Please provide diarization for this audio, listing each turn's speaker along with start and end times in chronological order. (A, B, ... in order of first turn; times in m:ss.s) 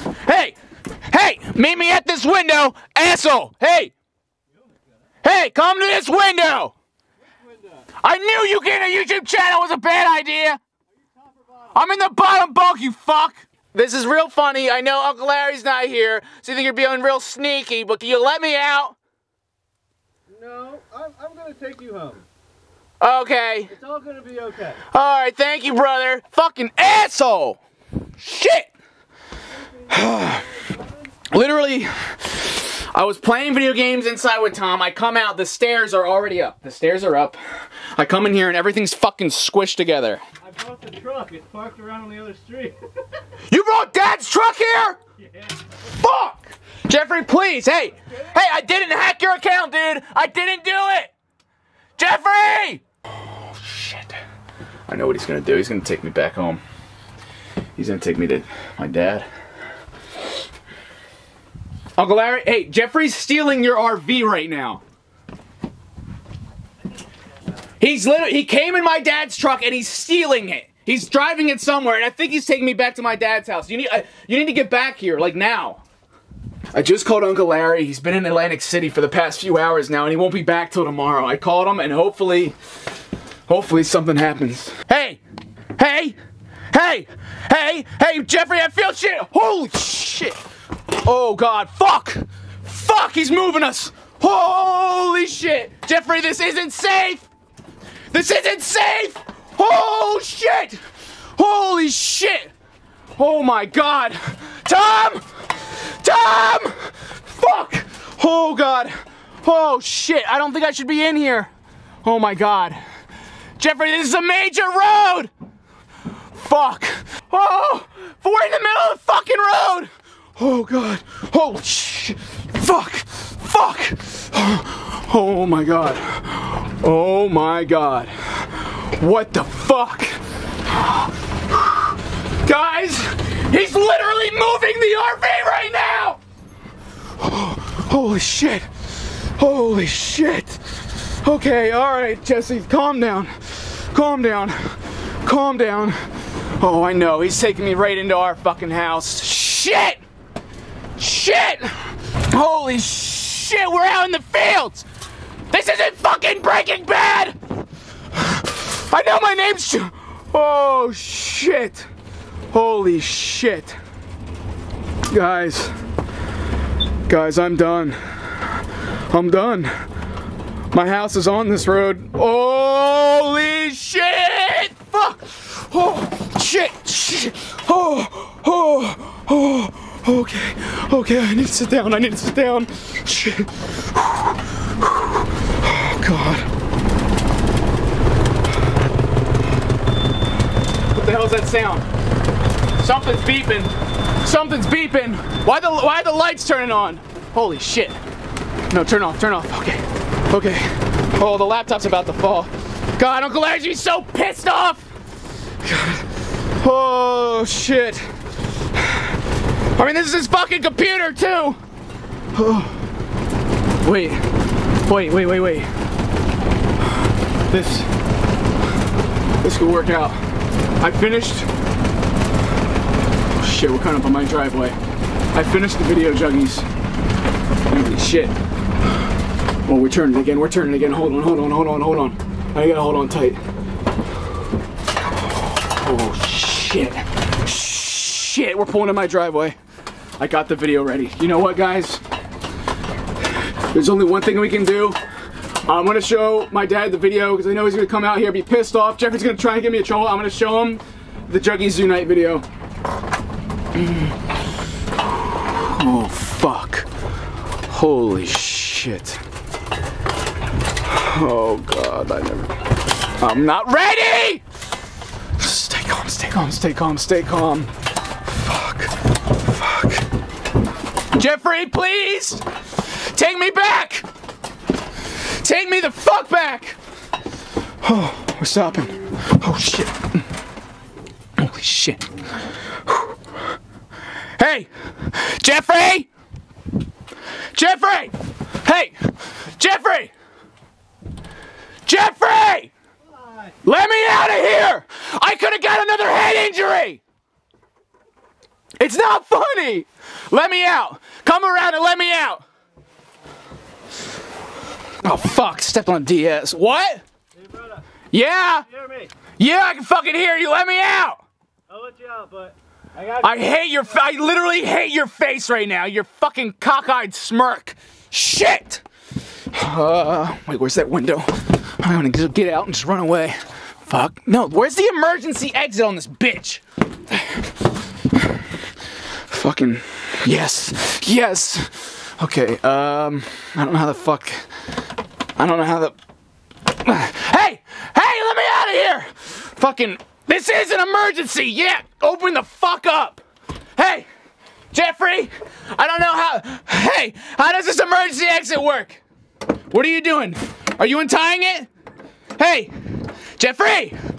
0:00.2-0:00.6 A
0:01.1-0:03.9 A
0:05.2-0:06.7 A
0:08.0-0:10.6 A
0:11.7-0:18.9 A
0:20.3-0:22.2 B
0:23.0-0:23.7 A
0:23.7-0:24.8 B
0:24.9-0:27.6 A
0:28.2-0:28.7 A
0:29.9-0:30.4 A
0:31.3-0:40.2 A
0:40.4-0:42.8 B
0:43.5-0:45.0 A
0:45.9-0:51.1 A
0:52.0-0:52.8 A
0:53.5-0:54.1 A
0:54.9-0:56.6 A
0:57.8-0:59.3 A
1:02.0-1:04.8 A
1:07.8-1:15.8 A
1:16.7-1:22.6 A
1:23.5-1:25.2 A
1:25.8-1:26.2 A
1:26.7-1:30.4 A
1:31.0-1:37.3 A
1:38.1-1:40.8 A
1:41.4-1:42.5 A
1:43.2-1:45.2 A
1:46.0-1:51.5 A
1:52.0-1:52.8 A
1:53.6-1:55.3 A
1:56.3-2:16.2 A
2:17.2-2:18.6 A
2:19.4-2:20.6 A
2:21.2-2:24.6 A
2:25.2-2:26.0 A
2:26.6-2:30.0 A
2:31.0-2:34.8 A
2:35.5-2:37.3 A
2:38.2-2:41.9 A
2:42.5-2:43.7 A
2:45.1-2:45.7 A
2:47.1-2:48.0 A
2:49.1-2:49.7 A
2:50.7-3:06.5 A
3:10.9-3:11.8 A
3:12.8-3:13.7 A
3:14.2-3:18.0 A
3:18.7-3:24.9 A
3:25.6-3:26.0 A
3:26.6-3:28.0 A
3:29.7-3:31.6 A
3:32.3-3:32.8 A
3:33.8-3:34.2 A
3:34.8-3:35.7 A
3:37.5-3:37.9 A
3:39.4-3:40.2 A
3:40.8-3:41.5 A
3:43.3-3:44.8 A
3:45.3-3:46.6 A
3:47.7-3:48.3 A
3:49.6-3:53.4 A
3:55.6-3:59.6 A
4:00.2-4:02.0 A
4:03.7-4:05.0 A
4:05.6-4:12.4 A
4:13.7-4:14.1 A
4:15.4-4:16.9 A
4:17.7-4:19.2 A
4:20.8-4:22.6 A
4:23.2-4:24.4 A
4:25.4-4:27.7 A
4:28.3-4:28.9 A
4:29.5-4:30.0 A
4:31.1-4:32.4 A
4:33.1-4:34.0 A
4:35.4-4:36.8 A
4:37.8-4:40.0 A
4:41.4-4:42.0 A
4:44.4-4:46.1 A
4:47.5-4:48.9 A
4:49.6-4:50.1 A
4:51.8-4:52.7 A
4:53.6-4:57.0 A
4:58.8-5:02.4 A
5:05.0-5:07.0 A
5:07.4-5:07.8 B
5:08.1-5:08.6 A
5:08.7-5:09.1 B
5:09.3-5:11.2 A
5:11.7-5:13.3 B
5:13.2-5:18.8 A
5:19.5-5:21.3 A
5:21.8-5:23.4 A
5:23.9-5:26.6 A
5:29.3-5:34.4 A
5:35.4-5:35.9 A
5:36.8-5:43.2 A
5:43.8-5:44.1 A
5:44.7-5:49.0 A
5:49.7-5:51.7 A
5:52.4-5:52.7 A
5:53.4-5:54.0 A